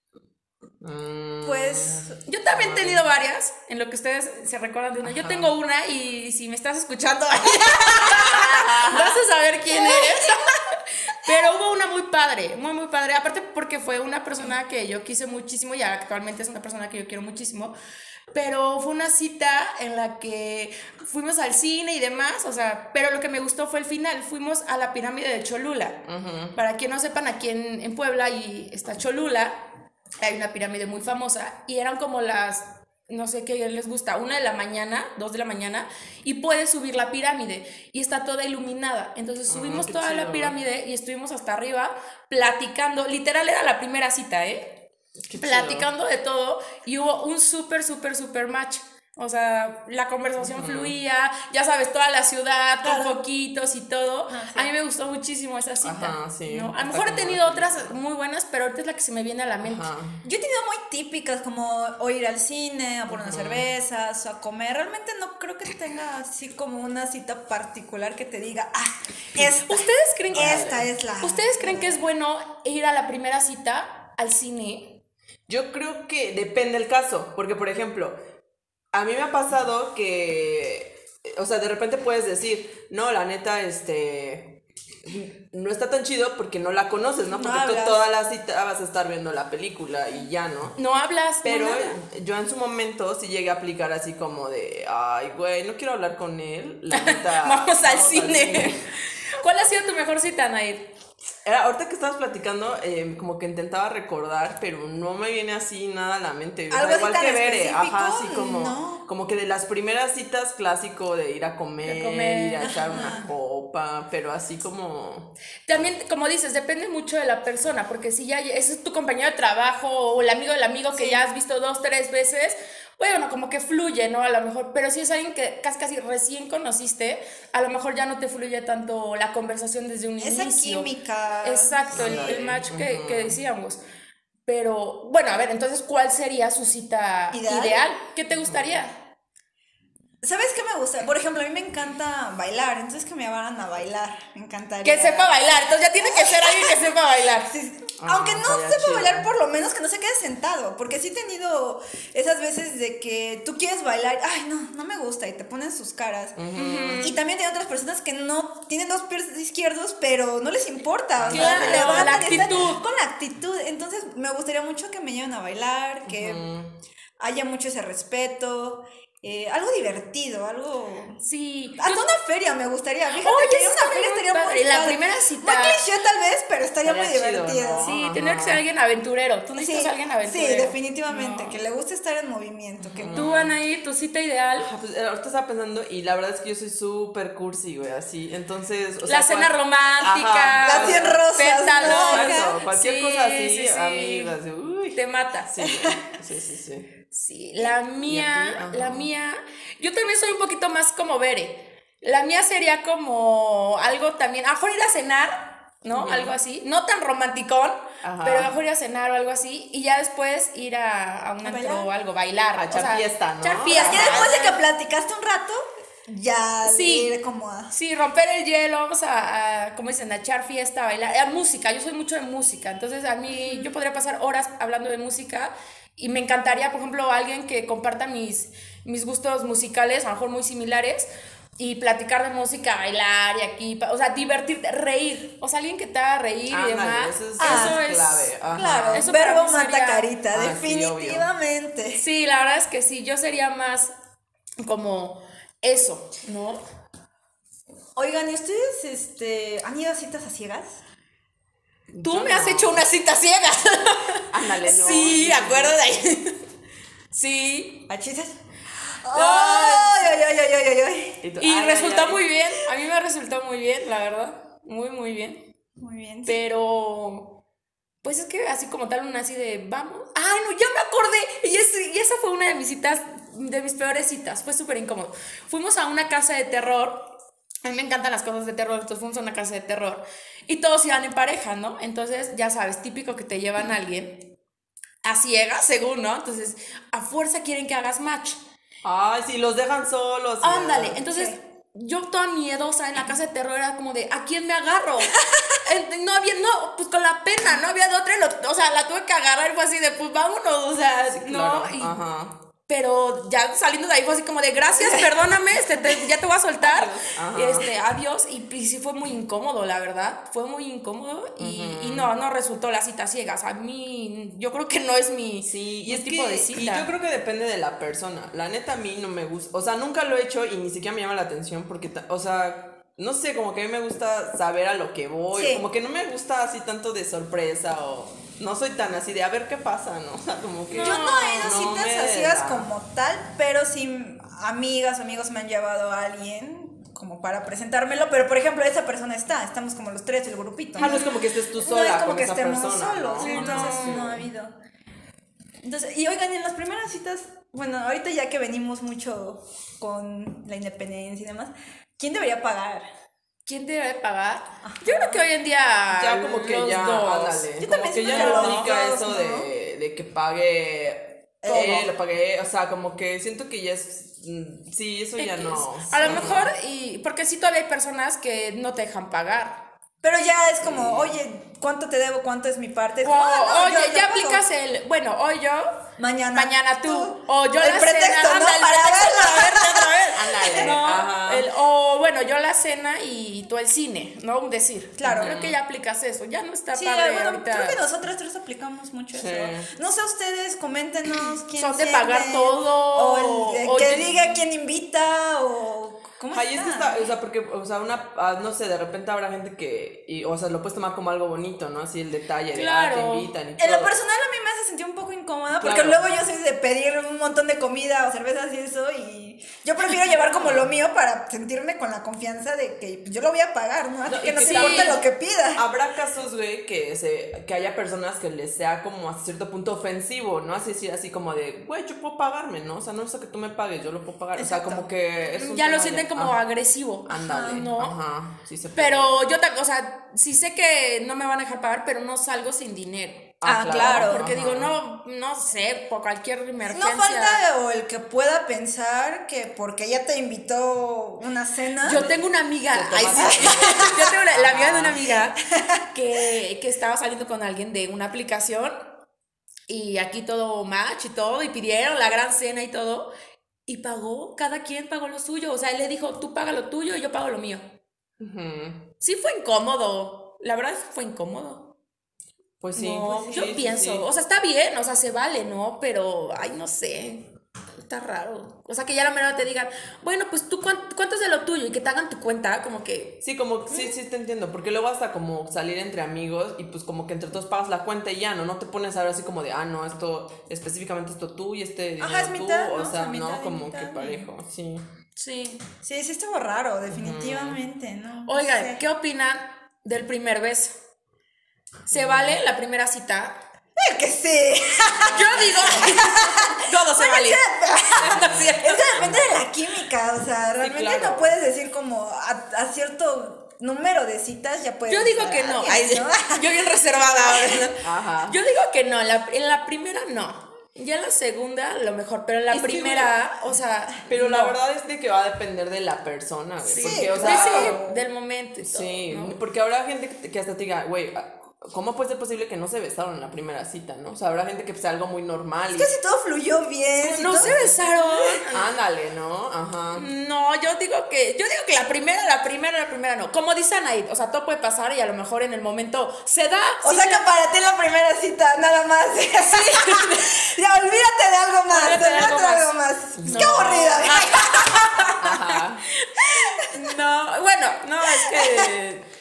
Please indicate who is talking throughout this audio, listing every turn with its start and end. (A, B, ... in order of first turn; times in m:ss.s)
0:00.8-0:03.0 A
0:01.4-0:02.2 B
0:02.2-0:17.8 C
0:05.0-0:05.5 A
0:08.0-0:09.2 A
0:09.7-0:10.1 B
0:18.3-0:26.0 C
0:26.1-0:26.6 A
0:26.6-0:29.6 C
0:30.2-0:44.8 C
0:39.5-0:40.6 A
0:45.3-0:45.9 A
0:45.4-0:59.9 C
0:50.4-0:51.0 A
0:52.8-0:53.2 B
0:54.3-0:54.7 B
0:55.8-0:58.0 A
0:59.6-1:00.2 A
1:00.2-1:12.0 B
1:03.1-1:03.7 A
1:09.4-1:10.7 C
1:10.3-1:10.9 A
1:11.2-1:15.0 C
1:15.5-1:18.2 A
1:18.9-1:30.8 A
1:27.3-1:28.0 B
1:30.8-1:32.0 C
1:31.4-1:38.8 A
1:36.9-1:38.8 C
1:39.4-1:40.9 C
1:41.4-1:55.3 A
1:46.7-1:49.0 B
1:51.8-1:53.2 C
1:52.6-1:53.3 B
1:55.7-2:10.9 C
2:00.9-2:01.2 B
2:10.2-2:12.4 B
2:11.4-2:13.8 C
2:11.9-2:13.4 A
2:14.4-2:19.0 C
2:17.3-2:17.8 B
2:18.3-2:18.7 A
2:20.2-2:25.4 B
2:24.8-2:27.5 C
2:26.0-2:26.9 B
2:27.5-2:36.4 B
2:28.0-2:29.3 A
2:36.4-2:37.2 A
2:36.6-2:37.2 C
2:37.0-2:46.4 B
2:41.2-2:42.7 A
2:41.3-2:42.8 C
2:46.1-2:46.7 A
2:47.2-2:51.2 B
2:51.2-2:52.1 C
2:51.8-2:57.9 B
2:53.2-2:55.8 C
2:56.8-2:58.6 A
2:57.8-3:01.6 C
2:59.6-3:03.2 B
3:02.9-3:03.6 A
3:03.1-3:04.7 C
3:04.6-3:16.9 A
3:09.1-3:14.4 C
3:10.6-3:12.5 B
3:15.0-3:15.6 C
3:15.6-3:16.0 B
3:17.1-3:34.6 C
3:18.0-3:19.1 A
3:25.9-3:26.4 A
3:28.0-3:28.6 A
3:31.4-3:31.9 B
3:32.6-3:34.3 A
3:33.7-3:37.7 B
3:36.6-3:37.1 C
3:37.7-3:58.4 C
3:56.5-3:59.1 A
3:57.4-3:57.8 B
3:58.5-4:02.0 B
3:58.9-4:00.1 C
4:00.3-4:01.3 A
4:01.9-4:03.9 C
4:04.6-4:06.6 C
4:08.0-4:10.8 B
4:11.9-4:12.9 A
4:12.0-4:16.4 C
4:14.3-4:15.8 A
4:17.1-4:17.9 C
4:17.9-4:21.2 B
4:19.1-4:20.1 C
4:21.2-4:22.2 A
4:21.4-4:25.5 C
4:25.8-4:26.4 B
4:26.3-4:27.4 C
4:28.0-4:37.1 C
4:37.6-4:44.3 C
4:45.0-4:48.4 C
4:48.8-4:51.0 A
4:50.4-5:02.0 C
4:51.1-4:51.4 B
4:55.2-4:55.5 B
5:01.1-5:02.4 A
5:02.7-5:16.9 C
5:04.8-5:05.0 B
5:06.6-5:07.7 A
5:11.4-5:12.1 A
5:15.4-5:32.7 A
5:25.3-5:25.6 B
5:30.7-5:31.6 C
5:30.8-5:44.5 B
5:40.8-5:44.3 A
5:40.8-5:41.1 C
5:43.2-5:44.0 C
5:45.6-5:52.9 B
5:53.5-5:57.5 C
5:54.6-5:55.2 B
5:55.9-6:06.5 A
5:57.6-5:59.5 B
5:58.0-5:58.7 C
6:01.4-6:01.9 B
6:01.5-6:01.8 C
6:05.2-6:09.6 C
6:06.0-6:06.4 B
6:10.0-6:14.4 B
6:10.6-6:11.2 A
6:13.0-6:15.7 C
6:16.0-6:20.8 B
6:16.3-6:27.8 C
6:20.1-6:21.5 A
6:25.0-6:25.6 A
6:26.7-6:37.1 B
6:29.1-6:29.7 A
6:31.5-6:34.4 C
6:36.3-6:43.9 A
6:42.5-6:43.3 C
6:43.6-6:55.6 B
6:45.6-6:46.0 A
6:50.3-6:50.7 A
6:54.1-6:55.0 A
6:54.4-6:55.0 C
6:55.5-7:06.4 A
7:04.4-7:04.9 B
7:05.3-7:08.0 C
7:07.1-7:09.2 A
7:07.2-7:07.7 B
7:08.8-7:17.4 C
7:13.4-7:14.8 A
7:13.4-7:14.3 B
7:16.6-7:22.1 B
7:21.8-7:25.4 C
7:21.9-7:25.2 A
7:23.2-7:24.0 B
7:25.9-7:28.8 C
7:29.7-7:33.1 C
7:33.7-7:37.8 C
7:38.2-7:38.9 A
7:39.0-7:41.7 C
7:42.6-7:44.0 A
7:42.8-7:53.2 C
7:53.2-8:04.9 A
8:02.0-8:04.3 B
8:05.2-8:05.6 C
8:05.8-8:08.8 B
8:06.9-8:07.6 A
8:08.3-8:10.7 C
8:11.9-8:13.4 C
8:11.9-8:12.4 A
8:13.8-8:27.7 B
8:15.1-8:19.0 C
8:18.0-8:19.5 A
8:20.6-8:21.4 A
8:24.9-8:34.6 C
8:27.8-8:28.4 A
8:32.5-8:33.1 A
8:34.1-8:37.8 A
8:36.6-8:39.4 C
8:36.8-8:38.0 B
8:38.6-8:45.9 A
8:45.7-8:47.8 B
8:47.0-8:48.7 C
8:47.2-8:50.1 A
8:50.0-8:57.3 C
8:56.8-9:05.2 B
8:59.5-9:00.3 C
9:01.7-9:02.7 C
9:03.2-9:04.0 A
9:03.2-9:09.0 C
9:05.2-9:05.8 A
9:06.2-9:06.8 B
9:08.0-9:08.7 B